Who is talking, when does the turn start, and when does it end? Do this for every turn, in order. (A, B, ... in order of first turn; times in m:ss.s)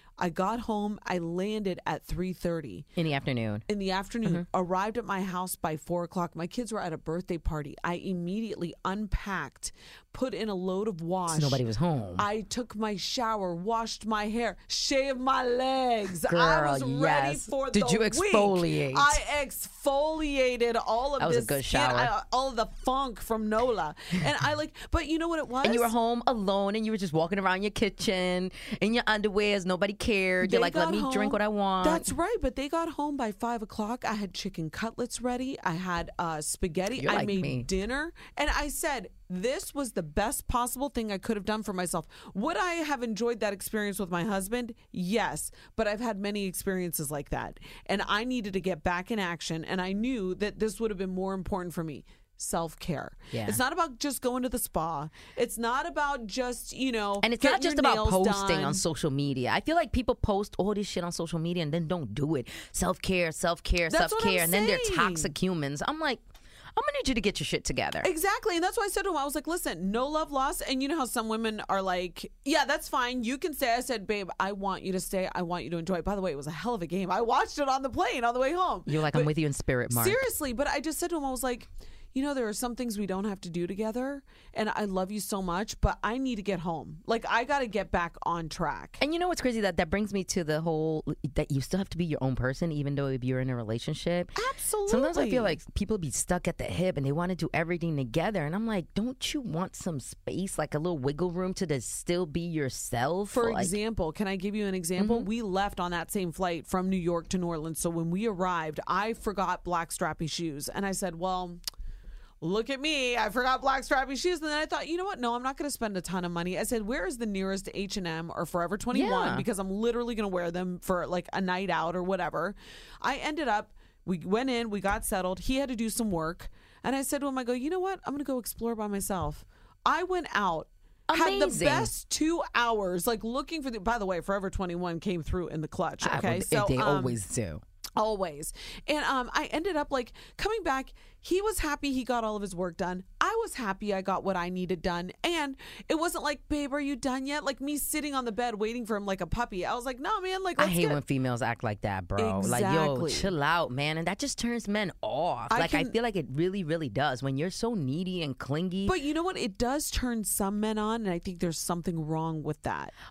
0:00.2-0:02.9 A
0:03.0-0:03.6 B
0:03.7-0:11.6 A
0:11.3-0:12.2 B
0:12.2-0:25.9 A
0:16.3-0:19.2 B
0:21.2-0:22.1 B
0:25.6-0:32.1 B
0:30.4-0:58.8 A
0:37.0-0:37.7 B
0:53.3-0:53.6 B
0:57.2-1:06.2 B
1:03.9-1:05.3 A
1:06.8-1:08.1 B
1:08.0-1:19.3 A
1:18.9-1:20.2 B
1:19.9-1:29.0 A
1:29.0-1:34.3 B
1:34.4-1:35.6 A
1:34.9-1:43.8 B
1:43.3-1:51.6 A
1:45.0-1:45.3 B
1:52.4-2:17.2 A
1:58.9-1:59.4 B
2:11.1-2:11.9 B
2:16.0-2:17.6 B
2:18.0-2:31.0 A
2:30.6-2:39.0 B
2:32.2-2:33.3 A
2:35.5-2:35.9 A
2:38.8-2:42.9 A